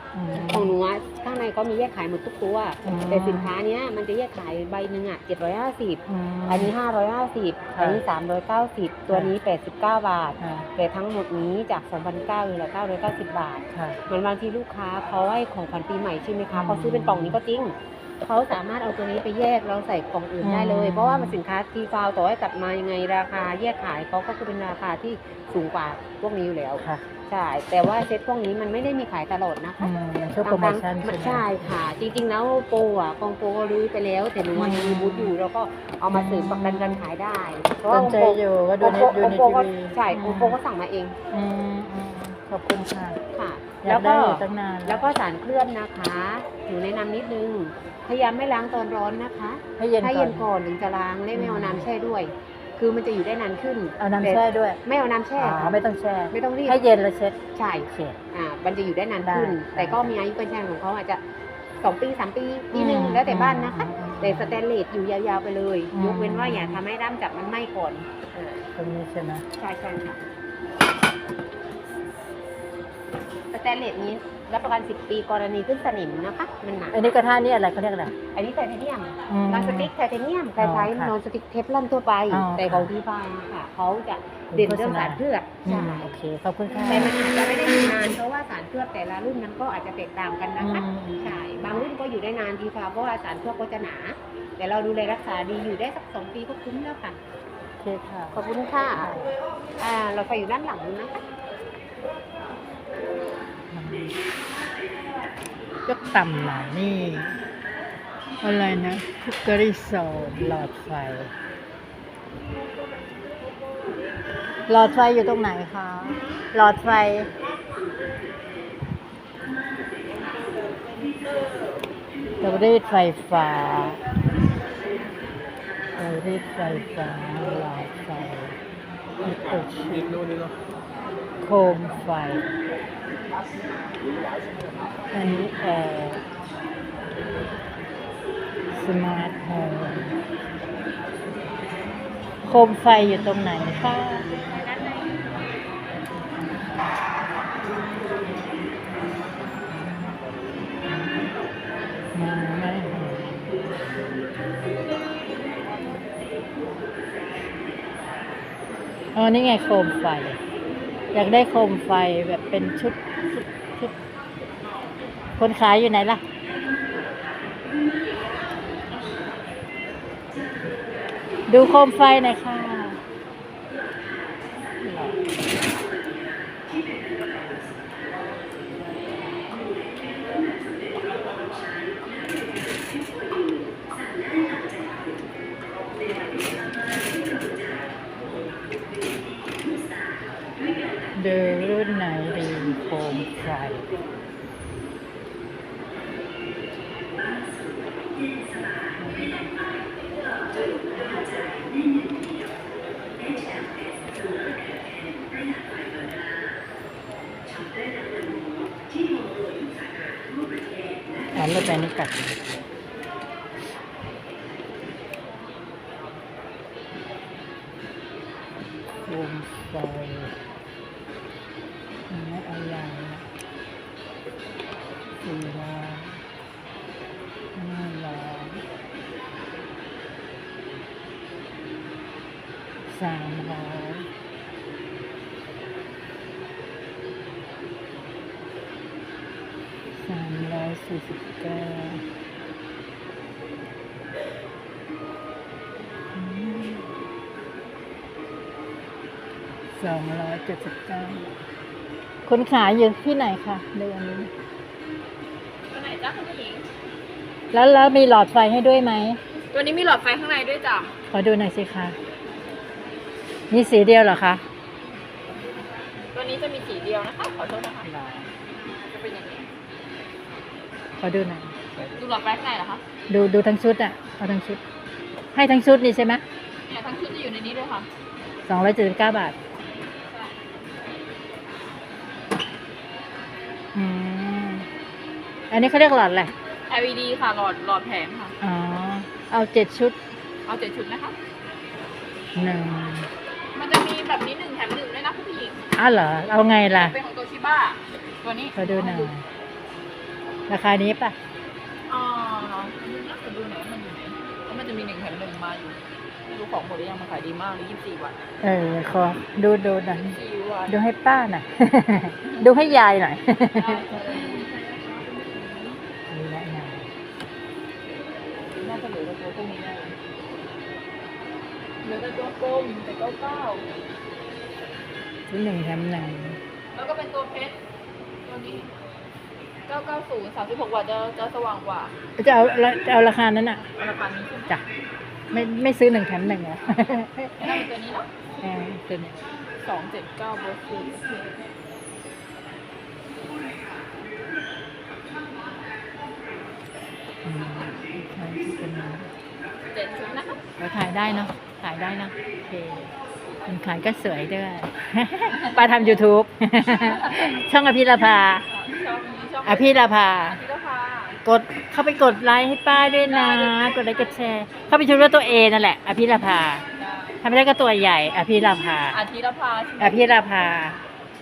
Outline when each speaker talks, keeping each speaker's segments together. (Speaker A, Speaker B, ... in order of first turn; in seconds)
Speaker A: 0.1-0.7, 2.8-3.5, 6.1-6.7, 7.7-8.0, 10.4-10.7, 13.7-14.0, 16.5-17.4, 20.4-21.4, 29.8-31.8, 34.5-35.3, 36.1-37.0, 37.9-40.6, 41.3-43.2, 43.8-45.1, 49.8-50.5, 51.3-51.9, 54.0-54.8, 55.4-58.2, 59.2-60.1, 62.7-64.6, 65.9-66.8, 68.7-69.5, 76.9-78.1, 79.3-79.9, 80.6-81.1, 82.3-82.9, 84.5-87.1, 90.6-91.5, 97.8-98.4, 99.0-99.3, 103.7-104.2, 105.8-107.4, 108.4-111.3, 114.7-117.3, 122.4-124.0, 126.0-128.6, 129.2-130.2, 131.4-132.4, 135.1-136.2, 138.7-140.1, 142.4-144.3, 146.3-146.8, 149.7-150.2, 150.8-151.2, 152.1-153.6, 159.1-160.4, 161.1-163.9, 165.4-166.2, 171.5-173.0, 174.8-175.2, 191.1-193.9, 199.0-199.5, 211.3-212.4, 219.0-220.3, 222.1-223.2, 225.2-226.2, 227.5-228.6, 232.9-234.1, 239.9-242.0, 246.1-246.9, 249.7-251.3, 252.2-254.3, 257.5-259.2, 261.1-262.0, 263.5-264.4, 267.8-268.3, 271.0-271.9, 273.1-274.6, 275.3-276.2, 278.4-279.4, 283.7-284.7, 285.5-286.3, 288.4-289.9, 292.3-293.1, 295.8-296.9, 298.5-299.2, 300.5-301.1, 308.4-314.2, 316.1-316.9, 325.3-326.4, 332.2-333.7, 335.3-337.6, 338.4-339.2, 347.2-349.1, 350.6-352.9, 353.4-358.5, 359.4-360.4, 361.2-366.6, 367.2-369.0, 369.8-370.8
Speaker B: 0.3-29.9, 30.4-41.1, 43.3-56.8, 57.5-61.2, 61.8-68.6, 69.5-70.2, 73.5-77.0, 78.3-86.1, 86.7-97.2, 98.3-99.1, 99.8-101.1
Speaker C: 255.7-256.6, 259.5-260.9, 266.0-267.9, 268.8-269.5, 271.9-272.8, 276.6-277.9, 280.1-280.4, 286.7-288.3, 290.4-291.1, 293.5-295.7, 296.7-299.1, 301.9-308.2, 310.0-310.8, 313.5-315.8, 318.5-320.0, 321.8-323.7, 326.7-327.6, 328.2-328.7, 329.7-331.9, 333.8-334.5, 337.4-338.1, 339.6-341.5, 349.7-350.4, 356.9-357.2, 358.5-361.2, 362.9-364.1, 366.8-367.2, 368.9-370.2